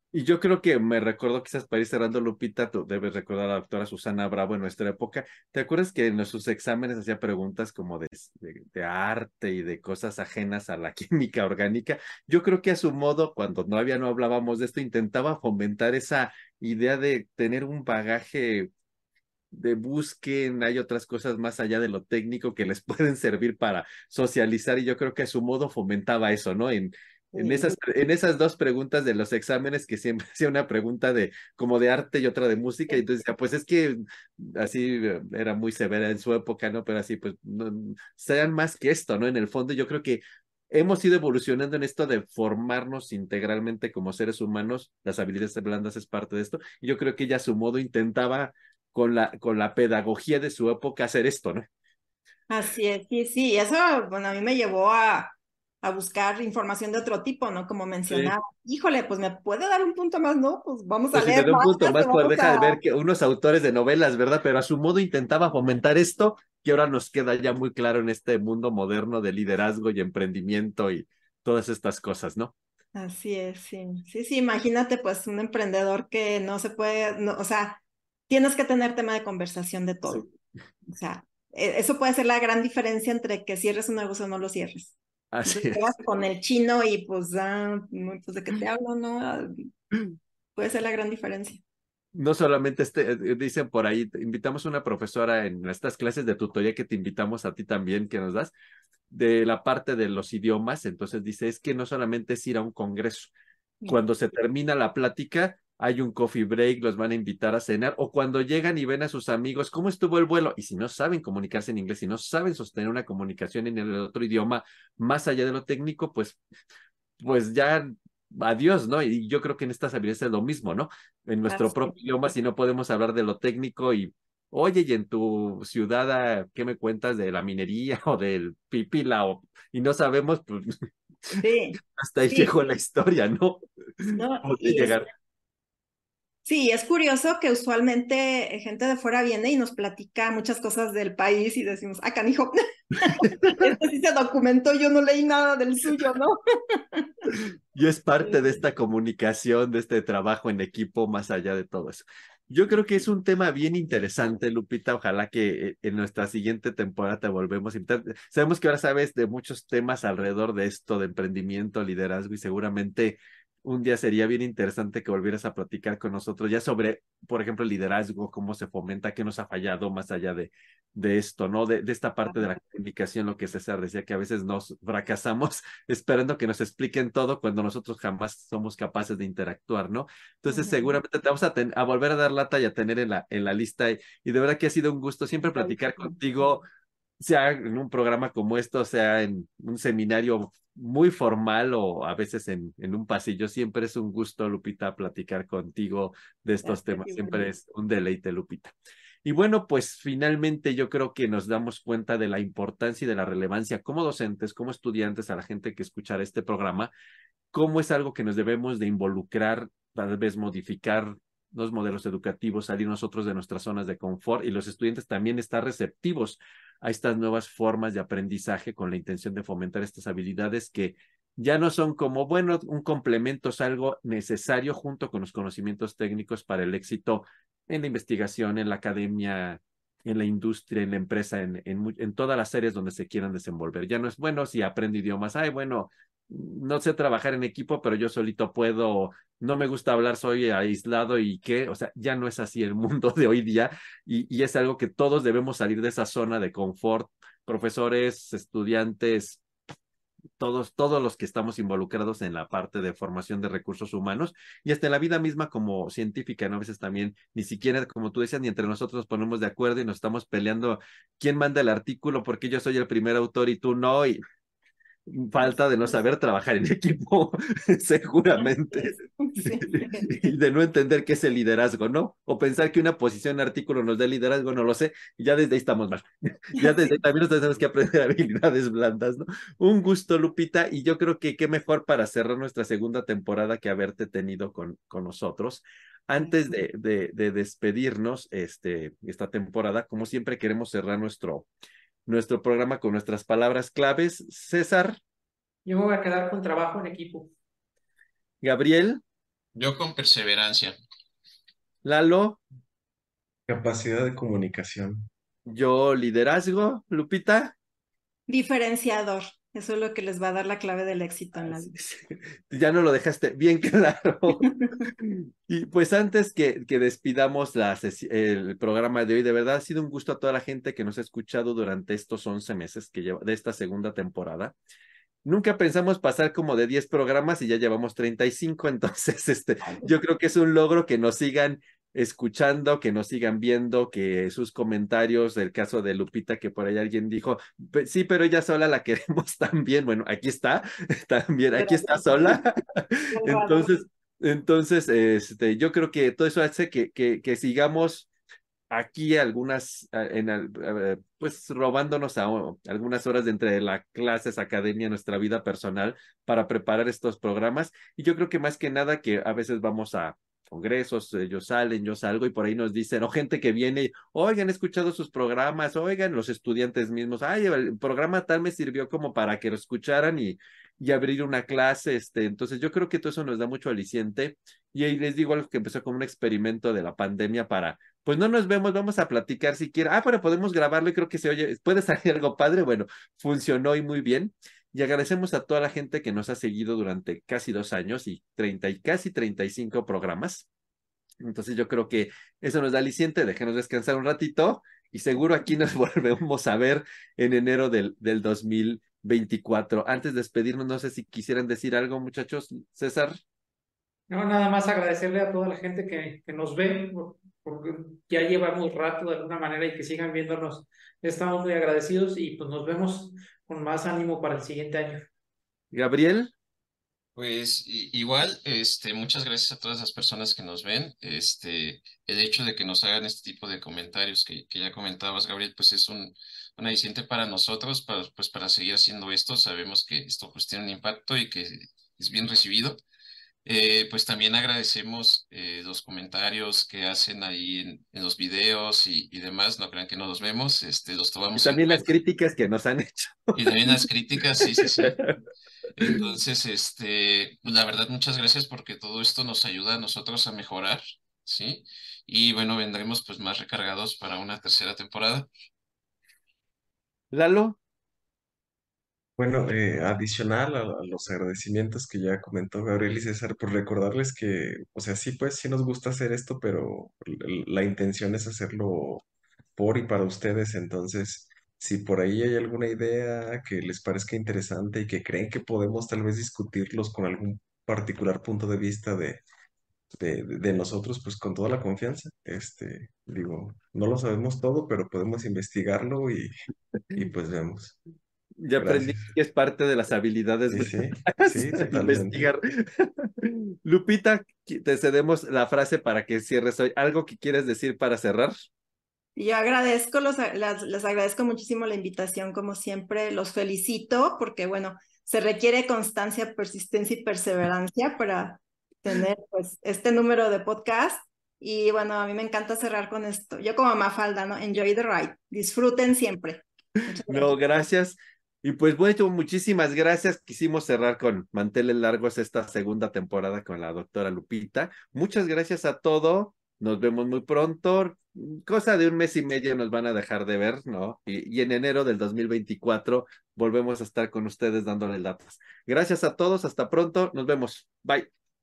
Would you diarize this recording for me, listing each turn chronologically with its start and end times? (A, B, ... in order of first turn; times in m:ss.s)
0:00.1-0:18.7 A
0:19.5-0:51.6 A
0:27.3-0:27.8 B
0:52.5-1:02.8 B
1:01.1-1:12.5 A
1:12.9-1:20.2 B
1:20.9-1:24.9 B
1:25.3-1:26.0 A
1:25.4-1:29.7 B
1:30.6-1:31.6 B
1:32.1-1:38.5 A
1:39.1-1:43.3 A
1:43.8-1:56.4 A
1:57.2-2:15.0 A
2:01.5-2:02.0 B
2:11.4-2:11.8 B
2:14.1-2:15.0 B
2:16.4-2:27.4 B
2:23.1-2:23.6 A
2:27.3-3:06.6 A
3:00.5-3:01.0 B
3:05.6-3:06.2 B
3:07.2-3:26.9 A
3:16.6-3:17.4 B
3:27.5-4:09.4 A
4:10.4-4:24.2 A
4:25.1-4:51.5 A
4:25.4-4:25.9 B
4:28.4-4:30.3 B
4:36.5-4:37.0 B
4:46.2-4:46.5 B
4:52.0-4:55.0 A
4:55.6-4:57.3 C
4:58.4-4:59.0 A
4:59.5-5:00.8 D
5:01.8-5:02.4 A
5:03.5-5:05.1 E
5:05.4-5:07.5 A
5:08.3-5:11.7 B
5:11.4-5:24.5 A
5:25.2-5:48.1 A
5:29.6-5:29.9 B
5:41.6-5:42.4 B
5:43.1-5:43.8 B
5:48.7-6:30.4 A
6:31.2-6:43.2 A
6:44.1-6:55.1 C
6:55.7-6:56.3 A
6:57.1-7:12.8 D
7:13.4-7:21.9 D
7:21.4-7:23.8 A
7:23.4-7:25.0 D
7:24.4-7:25.1 A
7:25.8-7:35.3 D
7:37.1-7:37.6 A
7:39.2-7:49.0 E
7:49.6-7:59.2 E
8:00.0-8:06.3 E
8:06.9-8:07.8 E
8:08.4-8:18.3 A
8:08.6-8:09.0 E
8:10.5-8:12.3 E
8:19.2-8:37.4 B
8:37.1-8:58.1 A